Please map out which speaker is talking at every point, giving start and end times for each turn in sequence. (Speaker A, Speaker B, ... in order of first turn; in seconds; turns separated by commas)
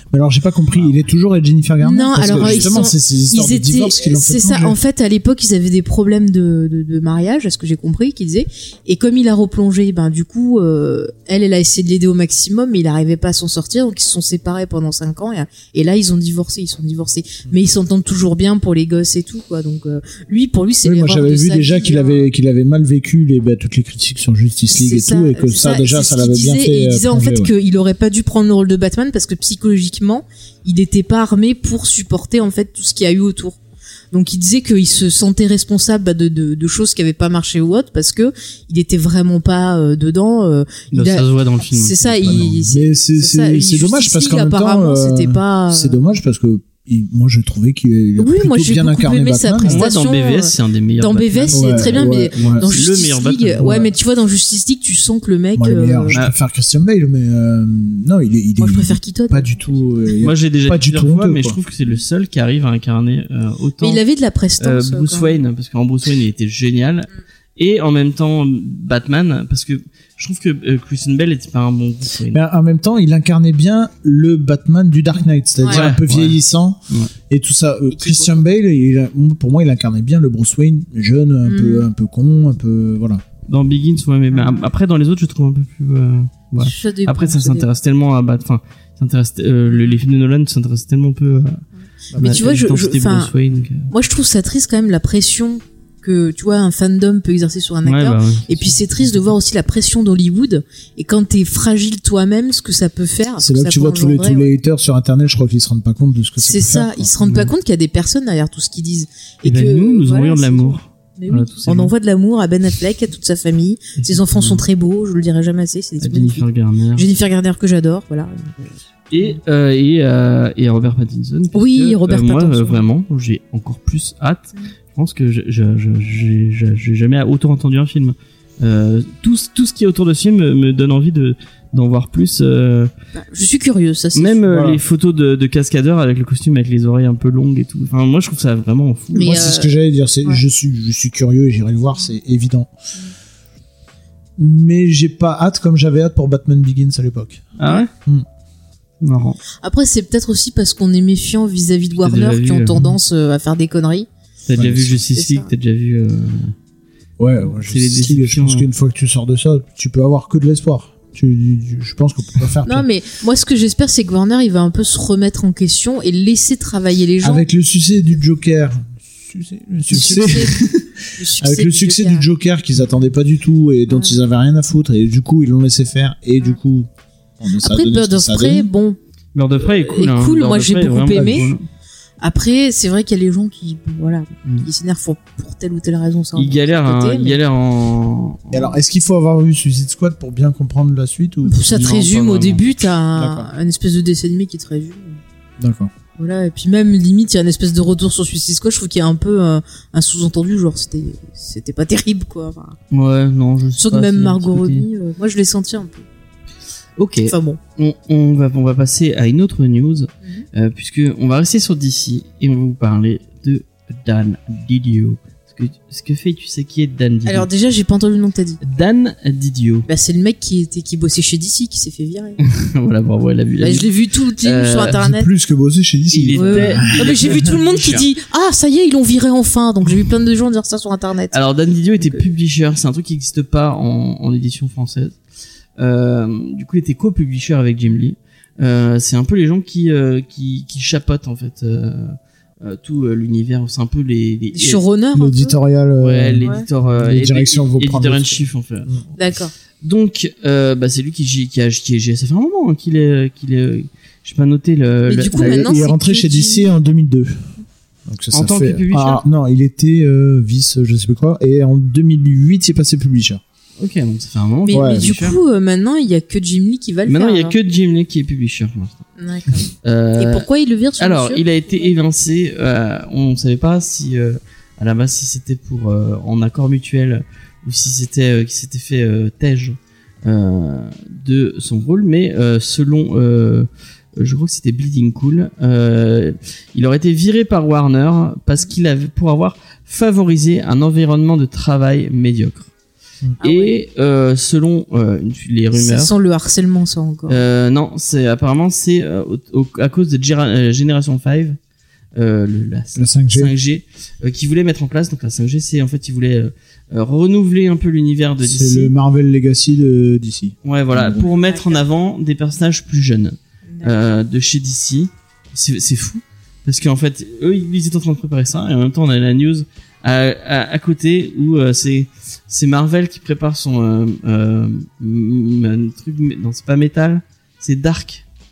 Speaker A: 0.1-4.8, Speaker B: 1.8-22.3, Speaker C: 2.3-2.7, Speaker A: 20.8-27.5, Speaker B: 24.7-33.6, Speaker B: 34.1-46.1, Speaker C: 40.9-42.5, Speaker A: 42.3-49.9, Speaker B: 48.2-56.2, Speaker C: 49.6-53.9, Speaker A: 51.5-52.7, Speaker A: 53.6-53.9, Speaker A: 55.5-61.6, Speaker B: 58.6-59.8, Speaker C: 60.2-64.0, Speaker B: 63.8-65.3, Speaker C: 64.6-72.4, Speaker A: 72.3-83.2, Speaker C: 75.7-76.4, Speaker B: 77.9-78.4, Speaker B: 81.4-81.9, Speaker C: 83.5-91.6, Speaker B: 84.3-84.7, Speaker B: 86.6-87.7, Speaker B: 89.7-90.0, Speaker A: 92.1-92.4, Speaker C: 92.2-93.9, Speaker B: 92.2-93.3, Speaker B: 93.9-104.5, Speaker C: 97.8-98.7, Speaker A: 103.4-107.1, Speaker B: 106.4-119.4, Speaker C: 109.4-111.9, Speaker C: 114.0-114.6, Speaker C: 116.0-117.1, Speaker C: 119.1-132.9, Speaker B: 121.5-122.8, Speaker B: 133.2-134.4, Speaker C: 134.2-139.4, Speaker A: 134.5-134.8, Speaker B: 139.1-139.7, Speaker A: 139.2-142.7, Speaker A: 144.4-147.5, Speaker C: 147.6-147.9, Speaker C: 149.0-149.4, Speaker B: 149.6-154.1, Speaker C: 152.0-152.9, Speaker C: 154.4-156.6, Speaker A: 154.6-155.0, Speaker B: 155.2-155.5, Speaker A: 157.2-162.9, Speaker C: 157.5-158.7, Speaker B: 162.7-167.4, Speaker A: 167.2-170.8, Speaker B: 169.9-172.3, Speaker C: 169.9-170.7, Speaker A: 171.4-176.9, Speaker B: 173.9-174.2, Speaker A: 177.4-178.7, Speaker B: 177.6-179.0, Speaker C: 179.3-181.6, Speaker B: 179.7-181.5, Speaker A: 181.1-181.4, Speaker B: 182.2-187.4, Speaker C: 186.3-188.8, Speaker A: 188.5-191.9, Speaker B: 191.4-195.2, Speaker C: 191.7-192.7, Speaker A: 193.2-193.5, Speaker A: 195.6-195.9, Speaker B: 196.2-202.8, Speaker C: 202.9-204.9, Speaker B: 203.8-206.1, Speaker C: 207.0-217.5, Speaker B: 207.2-207.6, Speaker B: 217.2-218.6, Speaker C: 218.6-219.9, Speaker B: 219.9-222.4, Speaker C: 222.4-225.0, Speaker B: 223.6-225.3, Speaker A: 224.9-227.3, Speaker C: 226.1-228.1, Speaker B: 226.3-231.4, Speaker C: 231.3-235.2, Speaker C: 235.8-244.8, Speaker B: 244.5-245.6, Speaker A: 245.1-249.0, Speaker C: 246.0-249.0, Speaker B: 249.2-249.5, Speaker C: 249.8-255.7, Speaker B: 255.1-256.7, Speaker A: 255.3-257.5, Speaker A: 258.1-263.4, Speaker C: 258.3-259.2, Speaker C: 263.8-265.4, Speaker B: 264.7-267.6, Speaker A: 264.7-265.2, Speaker C: 267.1-269.1, Speaker B: 269.2-271.9, Speaker C: 269.8-270.5, Speaker C: 271.0-292.7, Speaker B: 293.4-293.8, Speaker C: 293.4-296.1, Speaker B: 295.7-297.4, Speaker C: 297.3-301.6, Speaker C: 302.1-308.9, Speaker A: 302.9-303.5, Speaker A: 308.4-311.3, Speaker C: 310.6-328.2, Speaker B: 311.2-311.8, Speaker B: 313.7-313.9